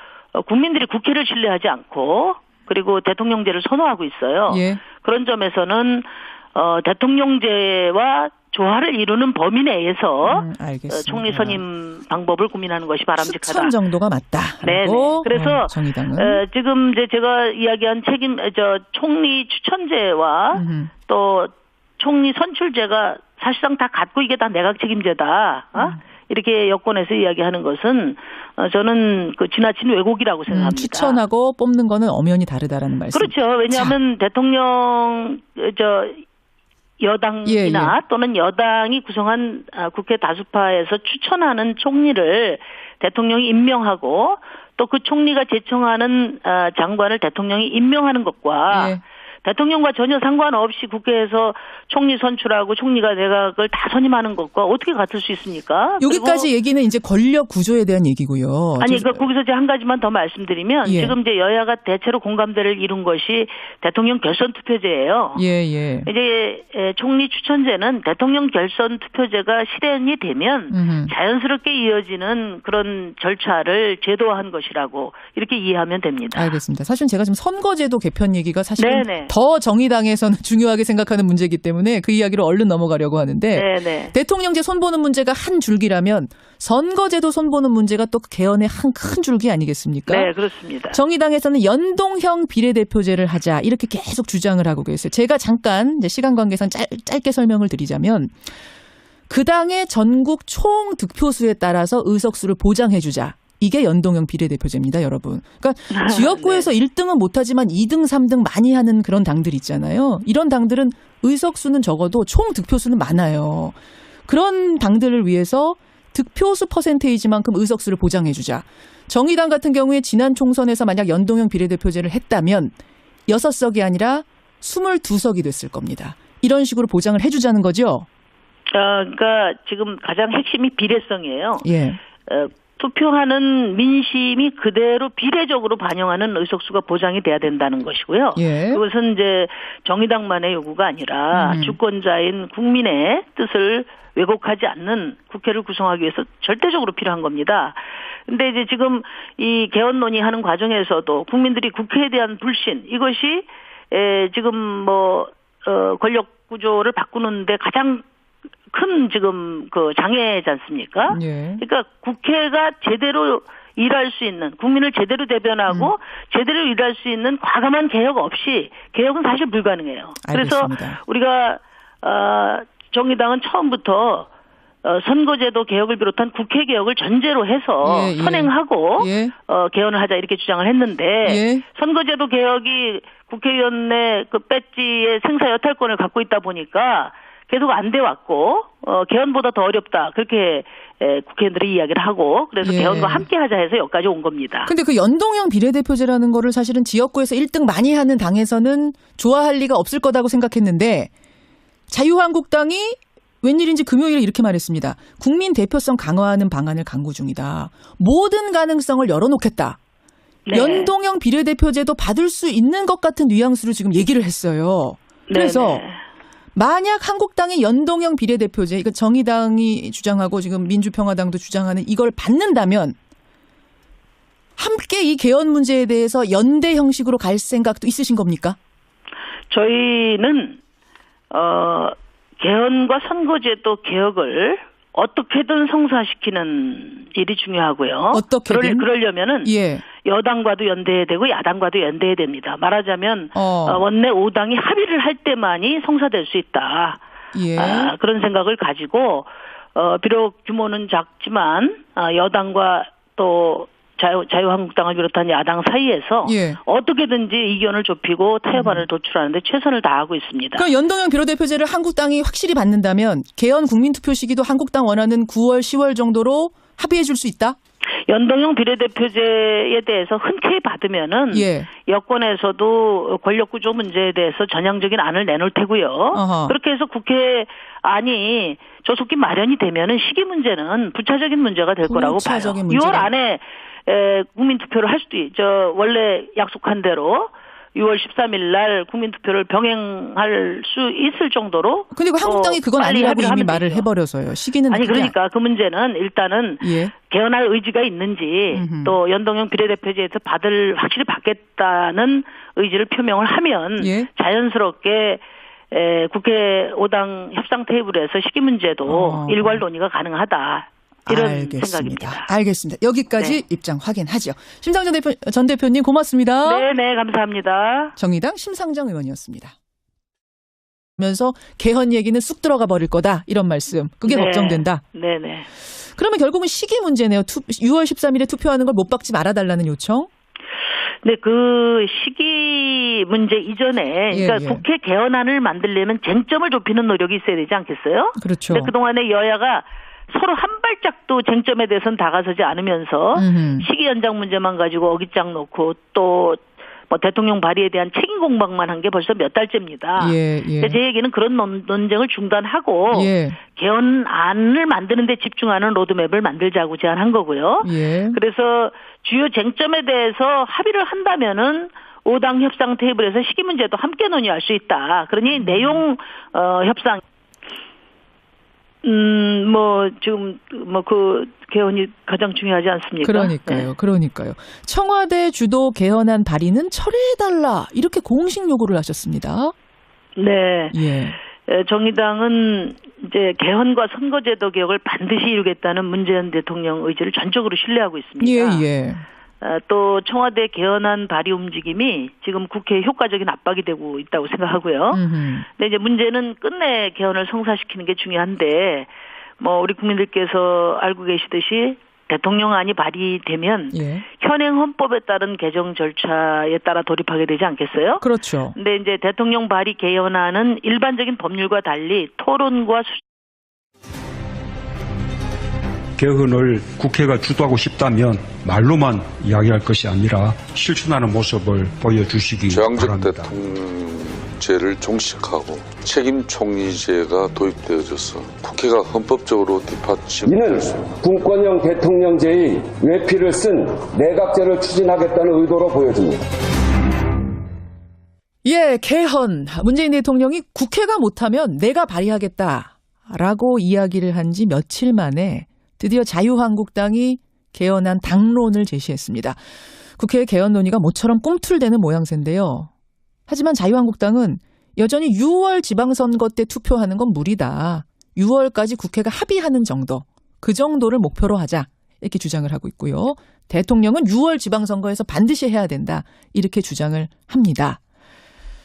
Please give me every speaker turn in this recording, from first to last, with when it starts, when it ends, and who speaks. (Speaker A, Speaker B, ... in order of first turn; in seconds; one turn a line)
Speaker A: 0.3-13.7
Speaker B: 4.5-4.8
Speaker B: 10.2-11.6
Speaker B: 13.2-16.4
Speaker A: 14.6-31.2
Speaker B: 20.5-20.9
Speaker B: 30.5-34.0
Speaker A: 33.1-36.2
Speaker A: 37.0-56.5
Speaker B: 37.4-38.0
Speaker B: 48.7-49.0
Speaker B: 56.0-59.2
Speaker A: 58.8-65.4
Speaker B: 60.8-61.1
Speaker B: 65.3-66.1
Speaker A: 66.0-76.6
Speaker B: 70.7-71.1
Speaker B: 76.3-90.3
Speaker A: 78.8-79.3
Speaker A: 83.5-84.1
Speaker A: 90.1-91.0
Speaker B: 90.9-98.4
Speaker B: 99.3-113.8
Speaker A: 105.9-106.7
Speaker B: 114.3-122.7
Speaker B: 123.3-128.1
Speaker A: 128.7-131.7
Speaker B: 131.6-132.0
Speaker A: 132.2-158.0
Speaker B: 138.3-138.8
Speaker B: 141.3-141.8
Speaker A: 158.7-174.3
Speaker B: 161.1-161.6
Speaker B: 165.7-165.9
Speaker B: 170.2-171.0
Speaker A: 174.8-194.7
Speaker B: 177.8-179.3
Speaker B: 181.2-181.6
Speaker B: 192.6-193.3
Speaker B: 194.7-201.1
Speaker B: 201.9-209.8
Speaker A: 210.5-210.9
Speaker B: 210.5-215.8
Speaker A: 215.3-216.0
Speaker B: 216.5-222.9
Speaker B: 224.6-228.6
Speaker A: 229.5-230.6
Speaker A: 231.3-247.0
Speaker B: 238.1-238.9
Speaker B: 239.4-239.8
Speaker B: 243.3-243.8
Speaker B: 247.3-247.9
Speaker A: 247.5-260.7
Speaker B: 256.2-256.6
Speaker B: 258.5-258.8
Speaker B: 260.6-267.6
Speaker A: 268.1-293.9
Speaker B: 271.3-271.7
Speaker B: 276.1-276.6
Speaker B: 281.9-283.1
Speaker B: 291.9-295.1
Speaker A: 294.7-312.3
Speaker B: 296.6-296.9
Speaker B: 298.5-299.0
Speaker B: 303.8-304.1
Speaker B: 308.9-309.6
Speaker B: 311.1-316.7
Speaker A: 313.1-313.4
Speaker A: 316.4-317.9
Speaker B: 318.0-319.5
Speaker B: 321.0-324.8
Speaker A: 324.1-325.5
Speaker B: 325.9-330.1
Speaker A: 331.0-367.0
Speaker B: 334.1-334.6
Speaker B: 338.2-338.7
Speaker B: 343.1-343.7
Speaker B: 350.0-350.8
Speaker B: 352.9-353.4
Speaker B: 357.6-358.2
Speaker B: 365.4-365.8
Speaker A: 368.8-373.7
Speaker B: 373.0-379.5
Speaker A: 380.1-380.8
Speaker B: 380.7-381.2
Speaker A: 381.4-388.6
Speaker B: 388.2-389.0
Speaker A: 389.4-413.0
Speaker B: 394.9-395.4
Speaker B: 403.7-404.0
Speaker B: 408.0-408.6
Speaker C: 416.0-423.3
Speaker D: 422.5-430.7
Speaker E: 430.2-436.2
Speaker B: 438.4-449.4
Speaker B: 450.0-452.7
Speaker B: 453.3-467.8